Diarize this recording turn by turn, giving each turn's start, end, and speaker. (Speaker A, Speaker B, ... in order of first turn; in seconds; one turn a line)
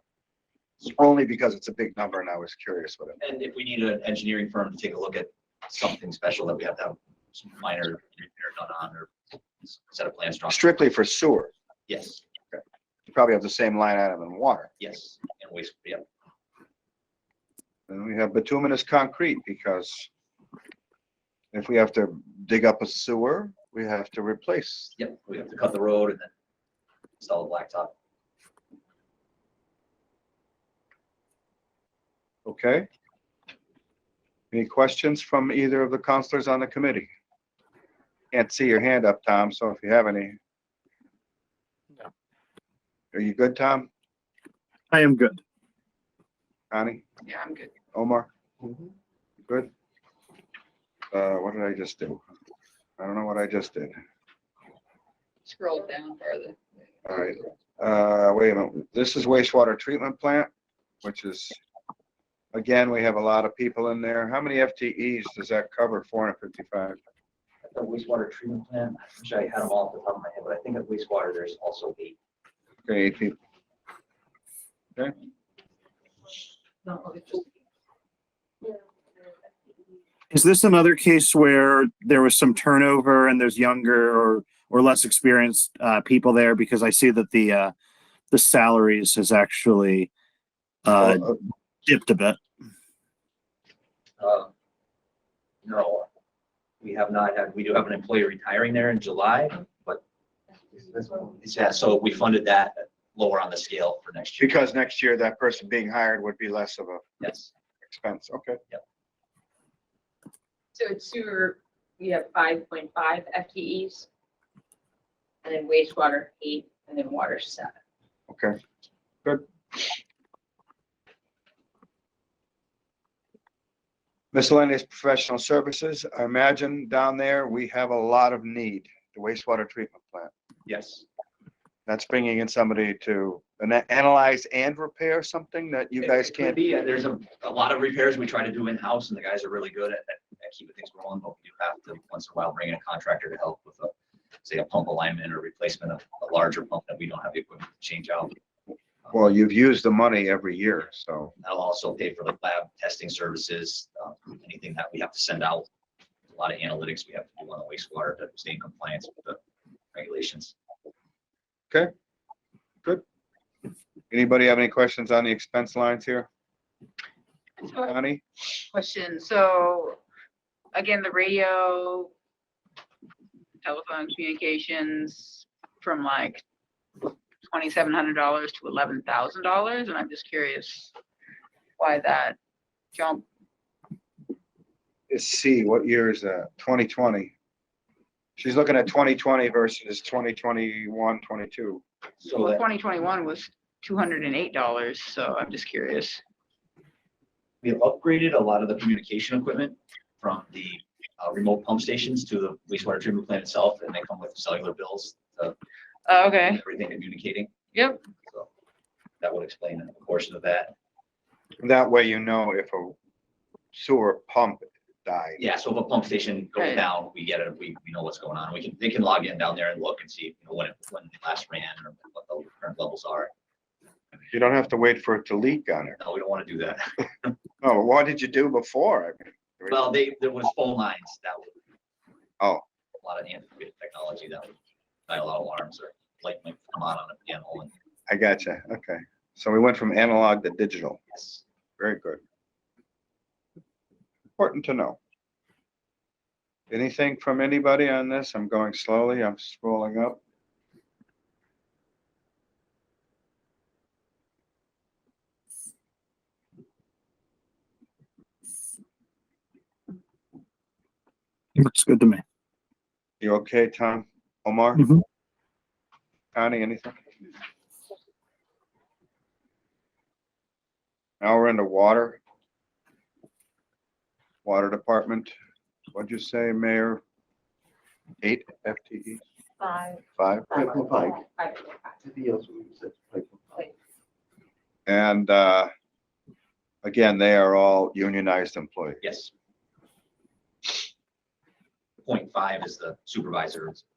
Speaker A: 0.8-3.2
Speaker B: 3.2-10.7
Speaker A: 10.5-11.5
Speaker B: 11.9-12.2
Speaker A: 12.5-14.7
Speaker B: 14.8-16.0
Speaker A: 17.9-20.1
Speaker A: 21.5-24.9
Speaker B: 25.0-26.3
Speaker B: 27.2-27.9
Speaker A: 32.4-32.9
Speaker A: 34.5-37.1
Speaker A: 38.3-40.4
Speaker A: 43.1-43.9
Speaker C: 44.9-45.4
Speaker A: 46.7-47.0
Speaker D: 47.2-47.7
Speaker A: 47.9-48.3
Speaker A: 51.1-52.2
Speaker A: 53.0-53.9
Speaker D: 55.4-56.6
Speaker A: 57.0-60.5
Speaker A: 61.0-61.6
Speaker A: 62.5-67.0
Speaker B: 67.6-72.2
Speaker A: 72.8-73.4
Speaker E: 76.9-77.4
Speaker C: 80.3-87.7
Speaker C: 88.3-90.1
Speaker C: 90.8-92.4
Speaker B: 94.2-94.5
Speaker B: 95.6-96.1
Speaker B: 96.8-100.0
Speaker B: 101.4-104.5
Speaker A: 104.4-107.0
Speaker B: 107.2-107.5
Speaker A: 107.9-108.6
Speaker E: 110.7-114.1
Speaker E: 115.4-117.8
Speaker A: 118.3-118.6
Speaker A: 119.2-119.9
Speaker A: 124.3-130.3
Speaker B: 130.7-131.1
Speaker A: 131.9-136.6
Speaker B: 136.0-143.9
Speaker B: 144.4-148.3
Speaker A: 149.1-151.3
Speaker B: 151.4-155.7
Speaker B: 156.3-159.4
Speaker B: 159.9-160.5
Speaker A: 164.1-166.3
Speaker D: 167.6-167.9
Speaker A: 167.8-168.2
Speaker D: 168.7-170.0
Speaker D: 170.7-172.1
Speaker D: 173.6-176.4
Speaker D: 177.4-180.9
Speaker D: 181.8-182.4
Speaker D: 182.9-183.2
Speaker A: 185.1-187.3
Speaker A: 188.4-191.8
Speaker B: 192.2-192.6
Speaker D: 192.2-196.2
Speaker B: 197.6-205.6
Speaker D: 206.1-206.6
Speaker B: 206.4-207.5
Speaker D: 207.7-208.0
Speaker B: 209.2-210.7
Speaker A: 211.6-212.9
Speaker A: 213.7-215.4
Speaker B: 215.4-223.3
Speaker D: 216.6-216.8
Speaker A: 224.3-226.0
Speaker B: 226.0-227.3
Speaker A: 227.6-229.9
Speaker B: 229.7-231.5
Speaker B: 233.0-234.5
Speaker B: 235.1-237.7
Speaker A: 238.1-241.0
Speaker B: 241.1-241.4
Speaker A: 241.8-242.2
Speaker A: 244.4-245.0
Speaker A: 246.7-250.2
Speaker C: 261.6-262.2
Speaker A: 263.2-264.9
Speaker A: 266.3-267.0
Speaker A: 271.2-272.2
Speaker A: 274.4-275.3
Speaker A: 275.9-277.0
Speaker A: 278.2-279.2
Speaker E: 279.6-282.2
Speaker A: 280.2-281.1
Speaker E: 283.1-283.7
Speaker A: 284.9-285.7
Speaker A: 286.8-289.0
Speaker B: 289.0-289.3
Speaker B: 292.0-293.8